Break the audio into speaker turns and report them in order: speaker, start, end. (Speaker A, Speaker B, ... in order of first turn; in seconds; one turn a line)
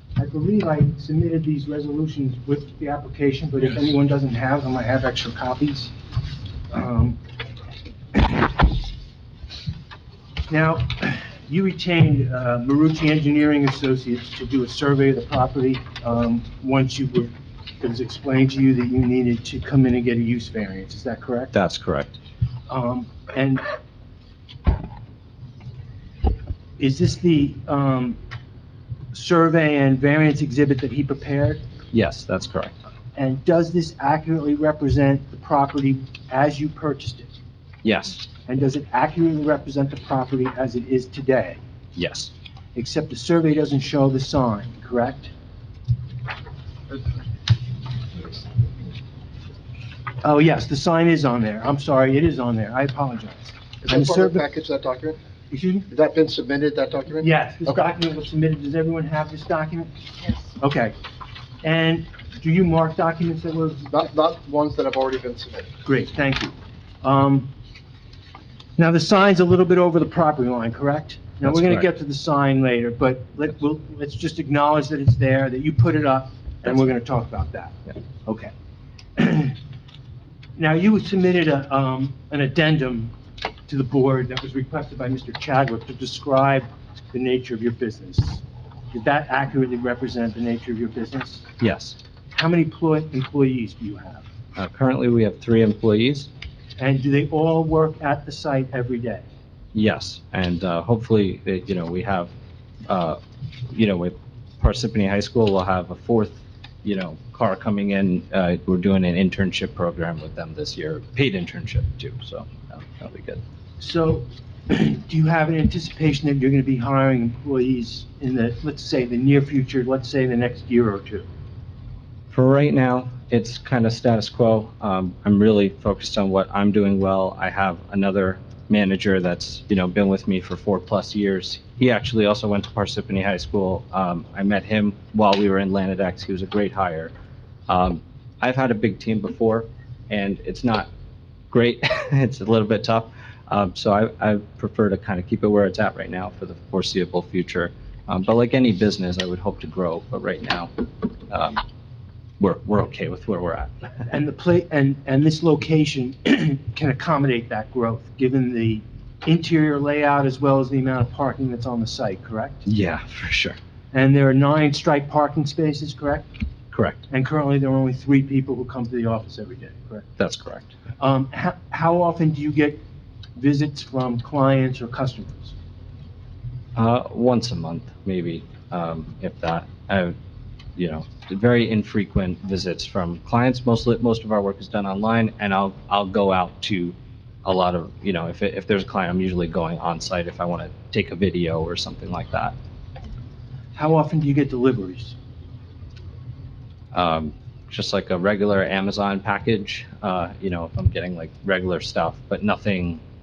Speaker A: 0.2-5.9
Speaker A: 6.7-7.2
Speaker A: 8.1-8.5
Speaker A: 10.5-21.5
Speaker B: 21.5-22.2
Speaker A: 22.7-23.6
Speaker A: 26.8-28.2
Speaker A: 29.1-31.6
Speaker B: 31.9-32.7
Speaker A: 33.2-37.3
Speaker B: 37.8-38.2
Speaker A: 38.5-41.6
Speaker B: 42.0-42.3
Speaker A: 42.8-45.3
Speaker A: 50.2-54.5
Speaker C: 53.8-55.2
Speaker A: 55.5-55.9
Speaker C: 55.9-57.9
Speaker A: 57.2-61.0
Speaker A: 61.6-63.9
Speaker C: 63.9-65.7
Speaker A: 65.8-67.5
Speaker A: 68.8-78.5
Speaker B: 71.5-71.9
Speaker A: 79.2-79.6
Speaker A: 80.6-83.1
Speaker A: 83.7-91.5
Speaker B: 91.6-92.0
Speaker A: 92.3-94.2
Speaker B: 94.6-96.3
Speaker A: 96.8-99.3
Speaker B: 99.7-102.3
Speaker B: 102.9-113.4
Speaker A: 113.8-121.3
Speaker B: 122.3-137.1
Speaker B: 137.7-140.9
Speaker B: 141.5-150.7
Speaker B: 151.3-151.6
Speaker B: 152.4-153.9
Speaker A: 154.1-162.7
Speaker B: 162.7-163.6
Speaker A: 163.9-166.3
Speaker B: 166.7-167.0
Speaker A: 167.1-170.1
Speaker B: 170.2-170.7
Speaker A: 171.0-172.8
Speaker A: 173.4-175.6
Speaker B: 176.8-180.2
Speaker B: 180.8-192.6
Speaker A: 193.8-195.2
Speaker B: 196.9-203.0